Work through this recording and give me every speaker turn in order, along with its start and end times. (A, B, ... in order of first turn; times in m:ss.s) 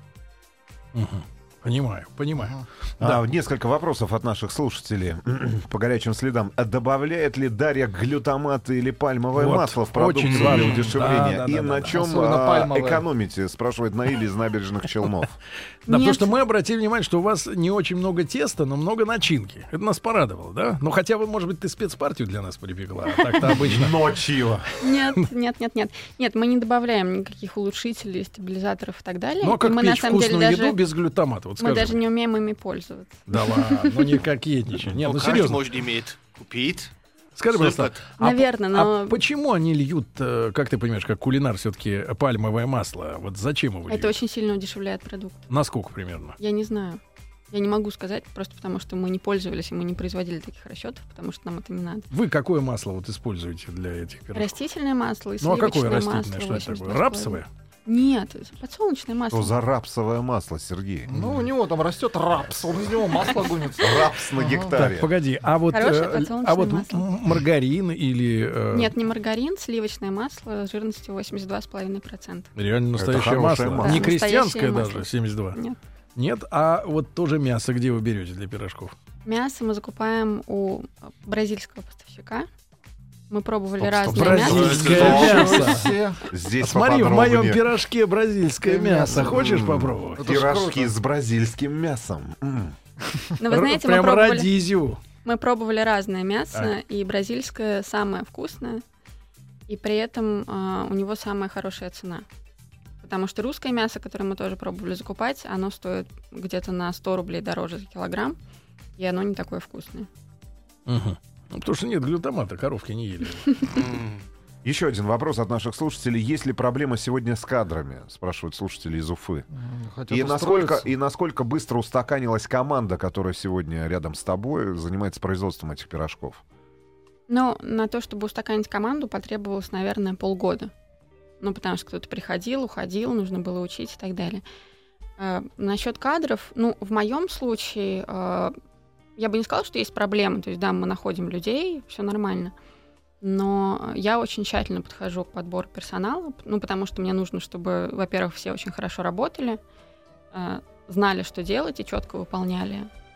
0:00.9-0:03.2 A
0:02.4-0:02.6 B
0:03.0-0:15.4 C
0:09.4-0:12.0 A
0:10.3-0:10.9 D
0:11.9-0:13.0 B
0:15.9-0:16.4 E
0:15.9-0:24.0 A
0:23.5-0:24.7 C
0:24.8-0:30.8 E
0:29.4-0:32.0 A
0:31.6-0:34.2 E
0:33.3-0:35.7 A
0:34.9-0:36.9 D
0:37.4-0:44.2 A
0:37.5-0:38.0 D
0:38.2-0:39.2 E
0:43.9-0:45.5 E
0:45.5-0:46.4 A
0:46.4-0:47.0 E
0:47.5-0:52.1 E
0:52.1-0:54.6 A
0:54.4-0:59.6 E
0:55.4-0:57.5 A
0:59.3-1:01.3 C
1:01.1-1:04.8 B
1:03.8-1:05.1 C
1:04.8-1:09.0 A
1:05.7-1:07.1 E
1:08.7-1:12.5 E
1:12.6-1:15.6 A
1:13.0-1:14.1 C
1:13.8-1:15.8 E
1:16.2-1:19.0 A
1:19.2-1:22.5 E
1:23.3-1:25.2 E
1:23.8-1:26.0 A
1:24.1-1:25.6 C
1:24.4-1:25.5 D
1:24.8-1:26.2 B
1:26.3-1:27.6 C
1:26.6-1:30.3 A
1:28.6-1:29.6 B
1:29.1-1:32.8 C
1:30.2-1:30.9 B
1:33.4-1:34.5 E
1:33.5-1:35.0 A
1:35.2-1:38.8 E
1:39.7-1:42.3 E
1:43.0-1:48.4 E
1:49.0-1:50.1 E
1:50.9-1:53.7 A
1:53.7-1:54.2 D
1:54.6-1:59.5 C
1:59.5-2:00.9 B
2:00.1-2:06.4 C
2:07.3-2:10.7 E
2:11.4-2:14.4 E
2:15.2-2:18.6 E
2:19.2-2:22.5 E
2:23.2-2:29.6 E
2:30.3-2:32.9 E